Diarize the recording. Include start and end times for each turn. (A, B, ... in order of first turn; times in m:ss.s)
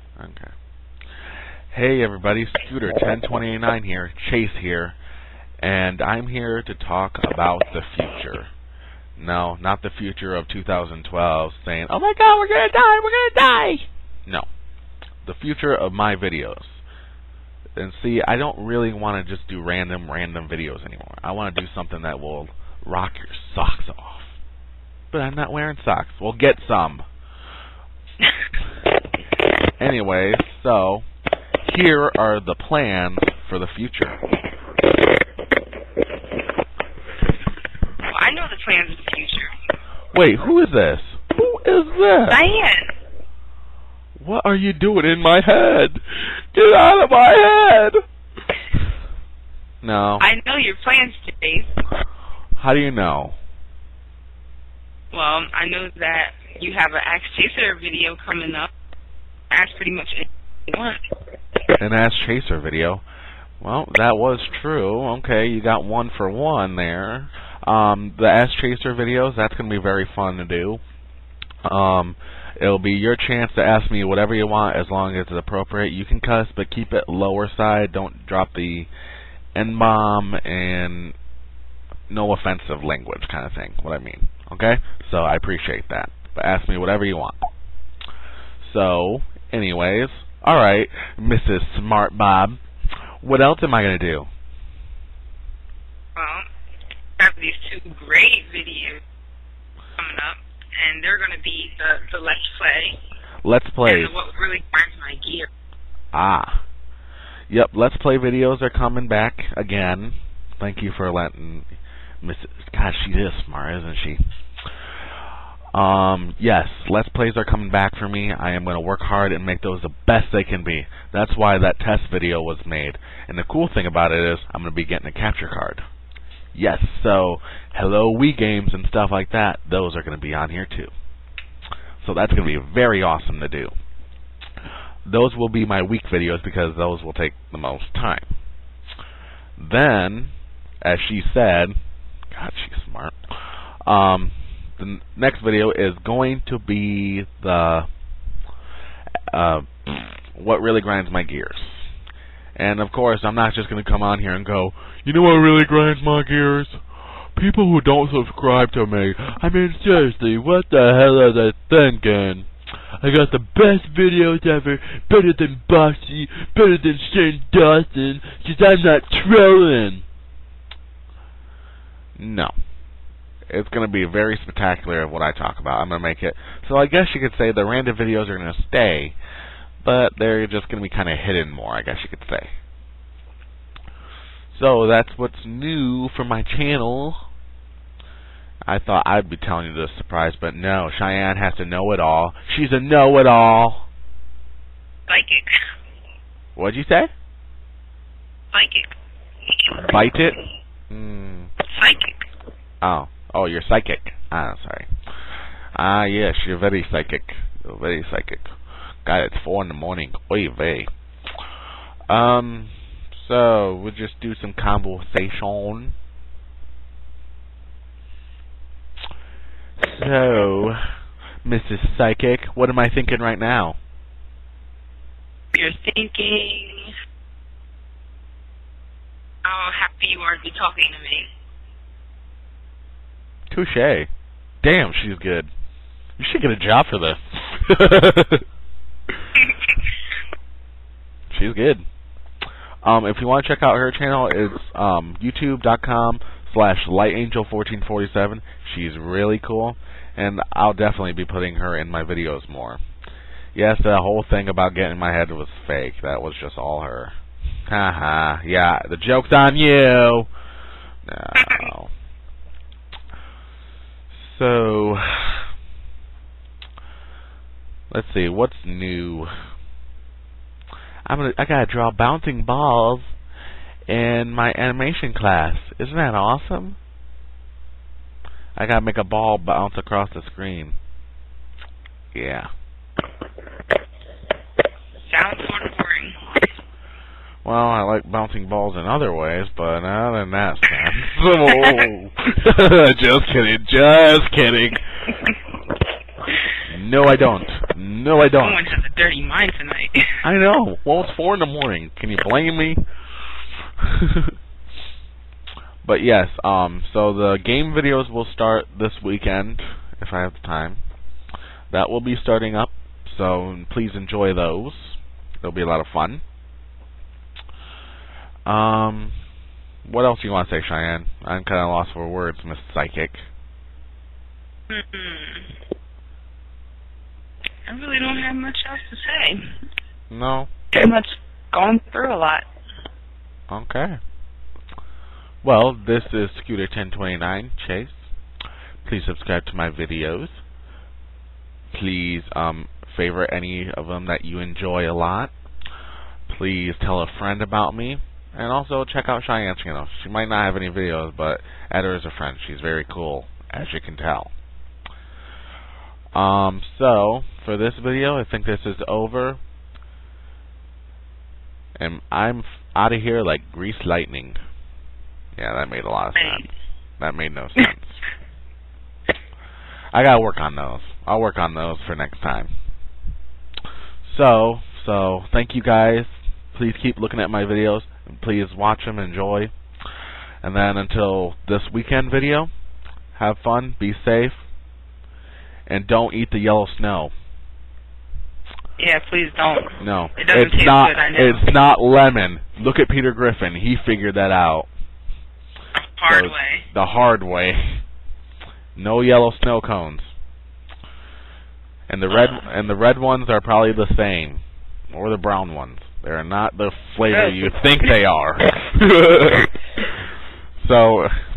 0:00.2-0:00.5 A
0:01.7-0:05.0 A
0:05.6-0:08.5 A
0:09.2-0:14.5 A
0:15.2-0:16.8 A
0:17.8-0:24.3 A
0:25.1-0:27.0 A
0:29.8-0:31.0 A
0:31.6-0:34.2 A
0:38.0-0:39.5 B
0:40.1-0:42.4 A
0:42.3-0:42.9 B
0:44.2-0:48.0 A
0:49.8-0:50.2 A
0:50.2-0:51.7 B
0:52.6-0:53.4 A
0:55.1-0:58.7 B
0:59.5-1:01.0 B
1:01.8-1:03.0 A
1:03.6-1:10.8 A
1:11.6-1:18.9 A
1:19.5-1:21.2 A
1:22.1-1:27.4 A
1:28.6-1:32.6 A
1:33.2-1:34.3 A
1:36.2-1:36.5 B
1:37.2-1:39.0 B
1:40.0-1:43.0 B
1:43.4-1:44.1 A
1:43.8-1:45.5 B
1:46.1-1:46.6 A
1:47.5-1:51.7 A
1:52.2-1:54.2 A
1:55.7-2:05.8 A
2:06.5-2:10.9 A
2:12.0-2:13.7 A
2:15.0-2:18.3 A
2:19.6-2:21.7 A
2:22.3-2:27.9 A
2:29.3-2:31.8 A
2:32.6-2:36.8 A
2:37.3-2:42.5 A
2:43.0-2:50.0 A
2:52.2-2:52.5 A
2:53.5-2:59.2 A
2:59.8-3:02.5 A
3:04.5-3:07.2 A
3:08.6-3:13.9 A
3:15.1-3:15.5 B
3:16.6-3:17.1 A
3:18.5-3:18.9 B
3:19.8-3:20.4 A
3:20.9-3:21.5 A
3:21.7-3:22.2 B
3:22.8-3:28.5 A
3:29.0-3:30.9 A
3:32.1-3:36.0 A
3:39.9-3:40.8 A
3:41.4-3:43.8 A
3:45.5-3:46.9 B
3:49.4-3:51.3 B
3:53.5-3:54.1 A
3:54.6-3:55.5 A
3:56.2-3:58.4 A
4:01.3-4:01.8 A
4:02.8-4:12.8 A
4:13.5-4:17.1 A
4:17.7-4:20.3 A
4:21.0-4:21.9 A
4:21.4-4:21.7 B
4:24.1-4:25.5 A
4:27.9-4:29.3 A
4:31.0-4:33.1 A
4:33.9-4:36.8 A
4:38.6-4:40.8 A
4:42.1-4:42.5 A
4:45.1-4:46.2 B
4:47.4-4:54.8 A
4:51.5-4:51.8 B
4:56.7-4:58.7 A
4:58.2-5:00.2 B
5:00.2-5:02.8 A
5:03.8-5:04.3 A
5:05.8-5:10.8 A
5:11.7-5:16.2 A
5:18.4-5:19.2 A
5:19.8-5:23.2 A
5:24.7-5:25.5 B
5:27.7-5:29.4 B
5:30.1-5:30.5 A
5:30.7-5:32.4 B
5:33.5-5:34.0 A
5:35.4-5:38.0 A
5:38.8-5:40.4 A
5:41.7-5:45.3 A
5:46.3-5:54.3 A
5:56.1-5:59.4 A
6:01.8-6:04.4 A
6:05.4-6:06.5 A
6:06.1-6:06.5 B
6:07.0-6:08.0 A
6:09.9-6:12.5 A
6:14.0-6:19.5 A
6:20.4-6:22.5 A
6:23.2-6:24.4 A
6:25.7-6:27.1 A
6:28.8-6:31.5 B
6:29.8-6:34.7 A
6:35.8-6:36.6 B
6:36.1-6:37.8 A
6:38.8-6:40.1 A
6:41.9-6:49.5 A
6:50.6-6:51.1 A